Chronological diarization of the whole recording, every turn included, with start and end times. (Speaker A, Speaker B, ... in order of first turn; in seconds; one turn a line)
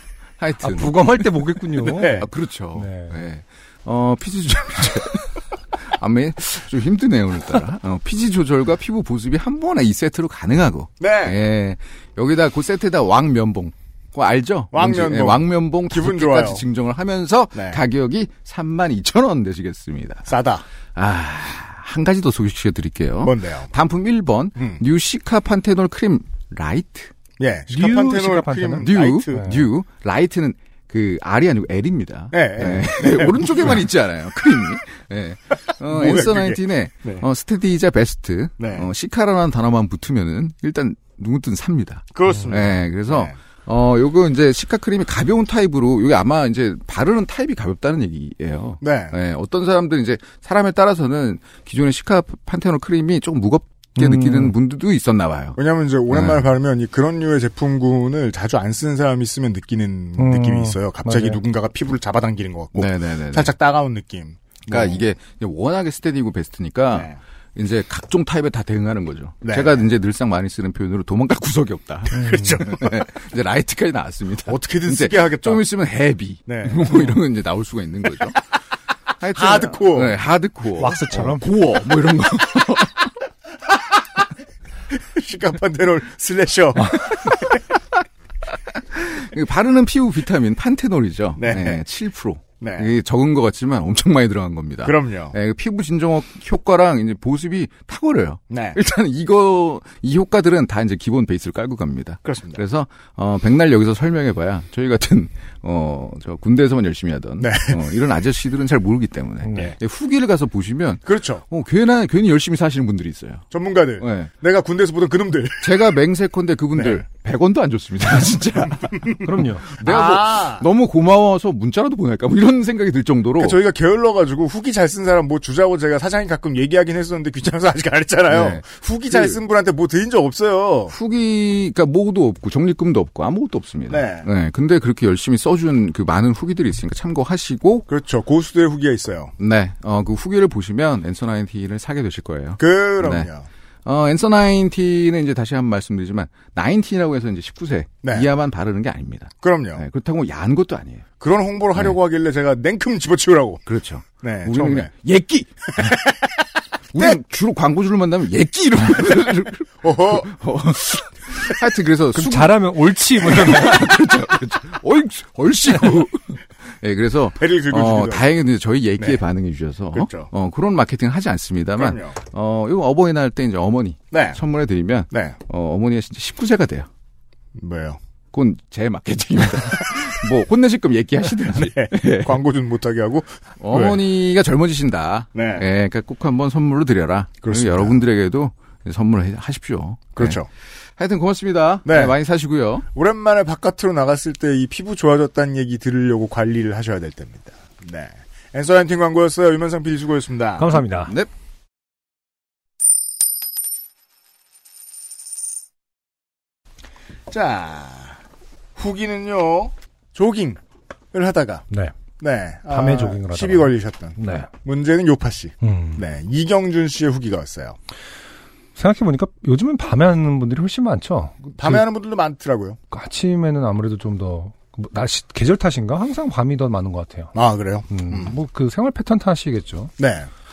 Speaker A: 0.4-20.3
Speaker B: 0.6-3.2
Speaker C: 1.9-2.3
Speaker C: 11.0-11.4
Speaker C: 14.7-16.6
Speaker C: 17.5-17.8
Speaker C: 20.3-20.6
Speaker A: 20.9-27.1
Speaker C: 23.2-23.7
Speaker C: 24.6-24.8
Speaker C: 27.4-29.6
Speaker B: 27.7-29.6
Speaker A: 28.8-55.6
Speaker C: 32.3-33.8
Speaker C: 35.8-37.2
Speaker C: 38.6-38.9
Speaker C: 42.1-43.3
Speaker C: 48.8-49.1
Speaker B: 54.0-54.5
Speaker C: 55.6-65.0
Speaker A: 56.1-56.4
Speaker B: 60.2-61.4
Speaker A: 62.8-63.5
Speaker A: 64.7-78.4
Speaker C: 66.9-67.2
Speaker C: 69.4-69.8
Speaker C: 72.1-73.0
Speaker B: 72.1-72.6
Speaker C: 74.5-75.7
Speaker C: 76.5-77.2
Speaker A: 79.2-83.1
Speaker C: 79.3-80.2
Speaker B: 80.8-81.5
Speaker C: 84.9-87.6
Speaker A: 88.7-113.4
Speaker C: 91.4-91.8
Speaker C: 92.6-92.9
Speaker C: 94.8-95.3
Speaker C: 98.5-98.8
Speaker C: 102.2-102.6
Speaker C: 107.4-107.8
Speaker B: 109.4-109.7
Speaker C: 111.0-111.4
Speaker C: 113.5-115.8
Speaker A: 114.0-114.3
Speaker A: 115.6-119.2
Speaker C: 116.7-117.0
Speaker C: 118.6-119.2
Speaker B: 119.2-119.7
Speaker C: 119.7-120.7
Speaker A: 119.7-123.6
Speaker C: 123.4-130.9
Speaker A: 128.3-129.4
Speaker A: 130.9-137.9
Speaker C: 133.9-134.3
Speaker C: 137.9-139.3
Speaker A: 139.4-143.3
Speaker C: 142.6-143.5
Speaker A: 143.8-151.1
Speaker C: 148.0-148.3
Speaker C: 149.4-149.8
Speaker C: 151.2-153.6
Speaker A: 153.7-156.0
Speaker C: 154.2-154.9
Speaker C: 155.8-156.4
Speaker A: 156.9-176.9
Speaker C: 159.8-160.3
Speaker B: 162.1-163.8
Speaker C: 167.4-168.2
Speaker C: 169.9-170.3
Speaker C: 171.8-172.2
Speaker C: 174.1-174.4
Speaker C: 175.1-175.3
Speaker C: 177.5-178.0
Speaker A: 178.3-182.4
Speaker C: 181.6-184.0
Speaker A: 183.6-190.4
Speaker C: 185.3-185.7
Speaker C: 187.4-188.0
Speaker C: 190.2-190.5
Speaker A: 191.0-192.8
Speaker C: 191.8-192.1
Speaker C: 192.9-200.7
Speaker B: 200.6-201.1
Speaker C: 207.3-208.2
Speaker C: 208.8-210.6
Speaker C: 211.1-211.7
Speaker C: 212.2-217.8
Speaker B: 212.7-214.5
Speaker B: 215.6-216.0
Speaker B: 218.8-221.8
Speaker C: 221.6-222.8
Speaker B: 222.9-227.3
Speaker C: 227.3-228.3
Speaker B: 227.9-229.9
Speaker C: 230.0-230.3